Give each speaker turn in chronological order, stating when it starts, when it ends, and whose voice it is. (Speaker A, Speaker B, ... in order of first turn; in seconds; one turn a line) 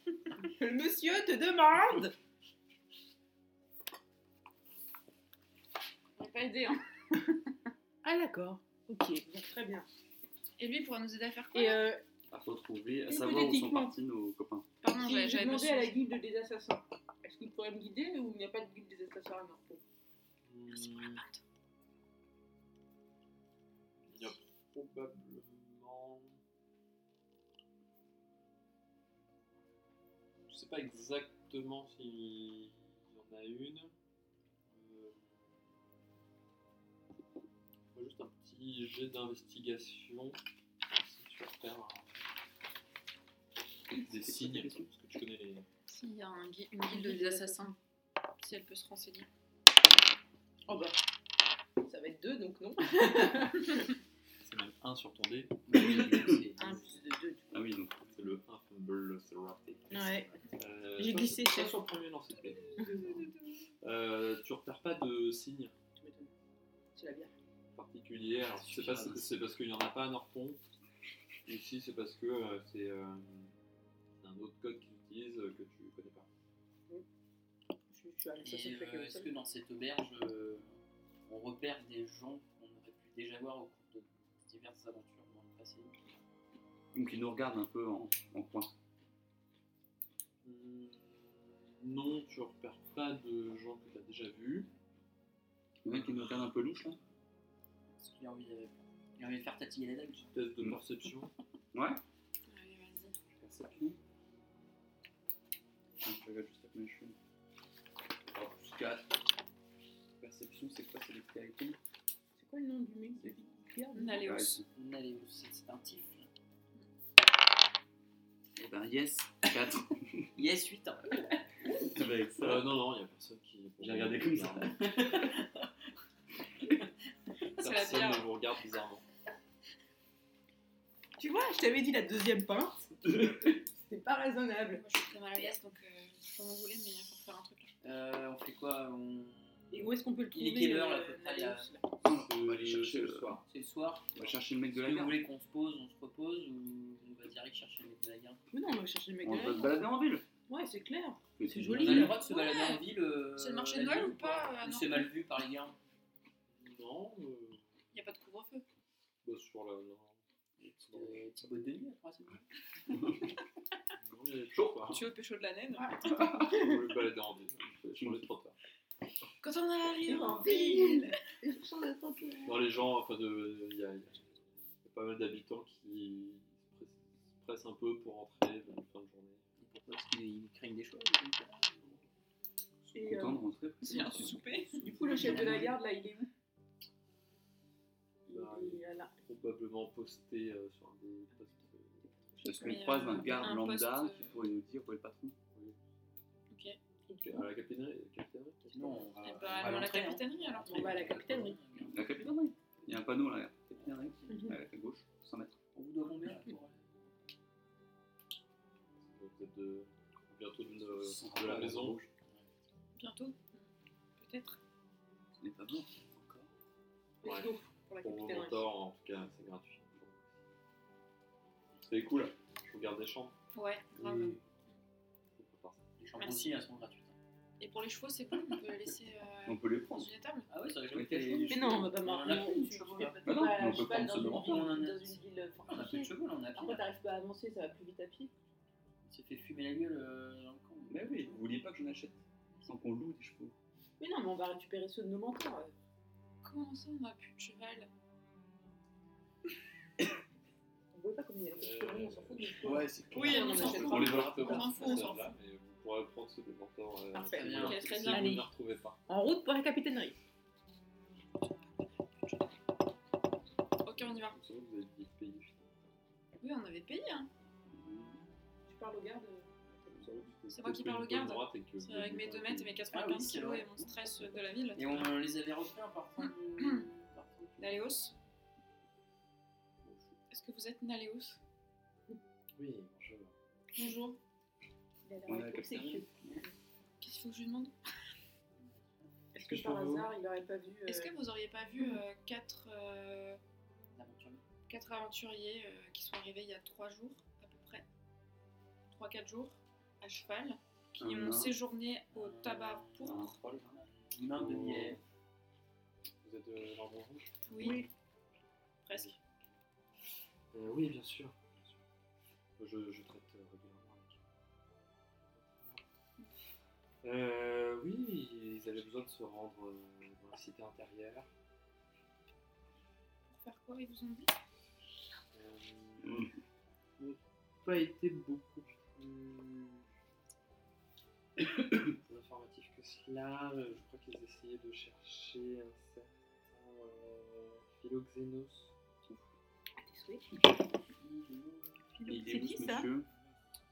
Speaker A: 0.4-2.1
Speaker B: 6.2-6.8
Speaker A: 8.0-9.9
Speaker B: 10.6-11.8
Speaker A: 11.5-12.0
Speaker C: 12.3-14.7
Speaker A: 13.1-13.9
Speaker B: 14.8-15.9
Speaker A: 14.9-19.8
Speaker D: 20.4-21.2
Speaker B: 20.7-21.4
Speaker D: 24.1-26.4
Speaker D: 30.5-33.9
Speaker D: 34.7-35.6
Speaker D: 37.9-42.1
Speaker D: 44.0-45.6
Speaker C: 44.1-44.9
Speaker B: 45.9-47.7
Speaker A: 46.9-47.8
Speaker B: 48.4-49.3
Speaker A: 50.7-51.0
Speaker A: 51.8-53.9
Speaker D: 54.4-55.6
Speaker E: 55.7-56.9
Speaker C: 55.7-56.5
Speaker A: 56.6-57.6
Speaker C: 57.5-58.1
Speaker D: 58.1-65.7
Speaker A: 59.9-60.3
Speaker A: 61.0-61.8
Speaker B: 62.4-63.6
Speaker A: 66.0-66.3
Speaker A: 66.9-67.3
Speaker D: 67.7-70.6
Speaker D: 71.5-73.5
Speaker D: 74.2-76.3
Speaker A: 77.9-79.3
Speaker E: 78.4-86.0
Speaker C: 86.9-88.7
Speaker D: 90.4-94.7
Speaker C: 95.8-97.0
Speaker E: 98.0-100.3
Speaker D: 100.3-101.3
Speaker C: 101.7-102.0
Speaker B: 102.5-103.2
Speaker C: 103.3-104.0
Speaker C: 106.0-107.2
Speaker C: 108.3-109.1
Speaker C: 110.2-111.8
Speaker A: 112.3-114.3
Speaker B: 113.9-114.6
Speaker C: 114.2-114.7
Speaker E: 114.7-116.3
Speaker C: 118.6-120.3
Speaker E: 120.3-121.4
Speaker C: 121.9-122.7
Speaker D: 122.4-124.9
Speaker C: 123.8-125.1
Speaker E: 124.8-125.6
Speaker B: 127.6-128.3
Speaker D: 127.6-129.0
Speaker A: 131.2-134.8
Speaker B: 134.7-137.7
Speaker E: 137.8-141.7
Speaker A: 139.7-141.8
Speaker C: 142.0-143.4
Speaker D: 142.1-143.4
Speaker E: 143.4-144.2
Speaker C: 144.2-145.2
Speaker E: 144.7-148.4
Speaker A: 148.5-149.8
Speaker C: 149.2-150.2
Speaker A: 150.5-152.2
Speaker C: 151.4-152.2
Speaker E: 151.7-155.8
Speaker B: 152.1-152.8
Speaker B: 153.3-155.1
Speaker D: 156.5-157.7
Speaker B: 157.9-158.6
Speaker D: 159.2-161.4
Speaker E: 160.8-163.0
Speaker D: 164.0-165.0
Speaker C: 164.5-165.0
Speaker B: 164.9-166.3
Speaker A: 165.7-166.8
Speaker D: 166.4-168.6
Speaker C: 168.0-168.2
Speaker B: 169.4-171.2
Speaker A: 170.1-172.6
Speaker D: 172.4-174.3
Speaker D: 174.8-179.4
Speaker E: 179.6-181.9
Speaker C: 182.8-184.4
Speaker A: 182.9-183.4
Speaker B: 183.8-184.8
Speaker E: 184.8-185.8
Speaker A: 184.8-186.3
Speaker A: 188.3-189.1
Speaker D: 188.3-192.4
Speaker A: 192.3-193.4
Speaker C: 192.4-195.3
Speaker B: 192.5-194.4
Speaker B: 196.5-196.8
Speaker A: 197.1-197.5
Speaker D: 197.2-199.2
Speaker E: 198.7-202.3
Speaker B: 199.2-201.0
Speaker A: 200.7-201.6
Speaker C: 201.9-205.6
Speaker E: 203.8-204.5
Speaker A: 204.3-204.6
Speaker E: 205.7-207.1
Speaker D: 209.0-212.0
Speaker C: 210.8-212.1
Speaker B: 213.0-214.6
Speaker C: 215.4-216.5
Speaker A: 217.2-218.7
Speaker D: 217.2-220.3
Speaker C: 221.9-222.3
Speaker D: 222.7-223.3
Speaker B: 223.5-224.4
Speaker D: 223.9-224.4
Speaker D: 225.3-225.8
Speaker E: 226.0-227.2
Speaker B: 226.2-226.6
Speaker B: 227.6-230.5
Speaker C: 229.4-230.1
Speaker E: 230.5-236.8
Speaker C: 230.9-231.8
Speaker A: 231.5-238.3
Speaker C: 233.2-234.7
Speaker E: 239.0-241.4
Speaker C: 240.9-243.5
Speaker A: 244.0-245.7
Speaker B: 246.4-247.9
Speaker A: 250.9-255.1
Speaker D: 251.5-259.0
Speaker C: 252.6-254.7
Speaker B: 253.1-255.3
Speaker A: 257.1-258.5
Speaker E: 257.3-258.2
Speaker B: 257.6-258.4
Speaker A: 259.1-260.2
Speaker B: 263.8-264.4
Speaker D: 263.9-266.0
Speaker B: 266.4-267.3
Speaker C: 267.7-268.2
Speaker A: 268.7-270.3
Speaker D: 269.9-272.8
Speaker B: 270.5-275.0
Speaker E: 272.9-274.2
Speaker E: 274.7-277.8
Speaker B: 276.2-276.9
Speaker B: 277.6-278.1
Speaker D: 279.8-280.1
Speaker B: 280.3-281.4
Speaker D: 282.6-283.3
Speaker B: 283.7-284.2
Speaker A: 285.0-286.5
Speaker C: 285.2-286.1
Speaker B: 287.0-287.7
Speaker E: 288.6-289.1
Speaker A: 289.3-291.1
Speaker D: 289.4-290.1
Speaker B: 290.9-293.4
Speaker E: 293.9-294.4
Speaker B: 294.7-297.8
Speaker B: 298.9-303.4
Speaker C: 301.0-301.5
Speaker E: 302.1-305.0
Speaker C: 303.0-303.8
Speaker D: 304.3-305.0
Speaker D: 306.2-307.8
Speaker B: 307.5-307.8
Speaker A: 307.6-307.9
Speaker B: 308.8-309.1
Speaker D: 310.5-311.8
Speaker D: 312.6-314.2
Speaker D: 315.3-315.8
Speaker D: 317.0-321.3
Speaker B: 323.3-324.3
Speaker D: 325.3-326.3
Speaker C: 326.0-326.3
Speaker D: 327.0-329.9
Speaker D: 332.0-338.7
Speaker A: 339.8-340.3
Speaker E: 341.0-341.9
Speaker A: 341.9-342.9
Speaker C: 342.1-343.1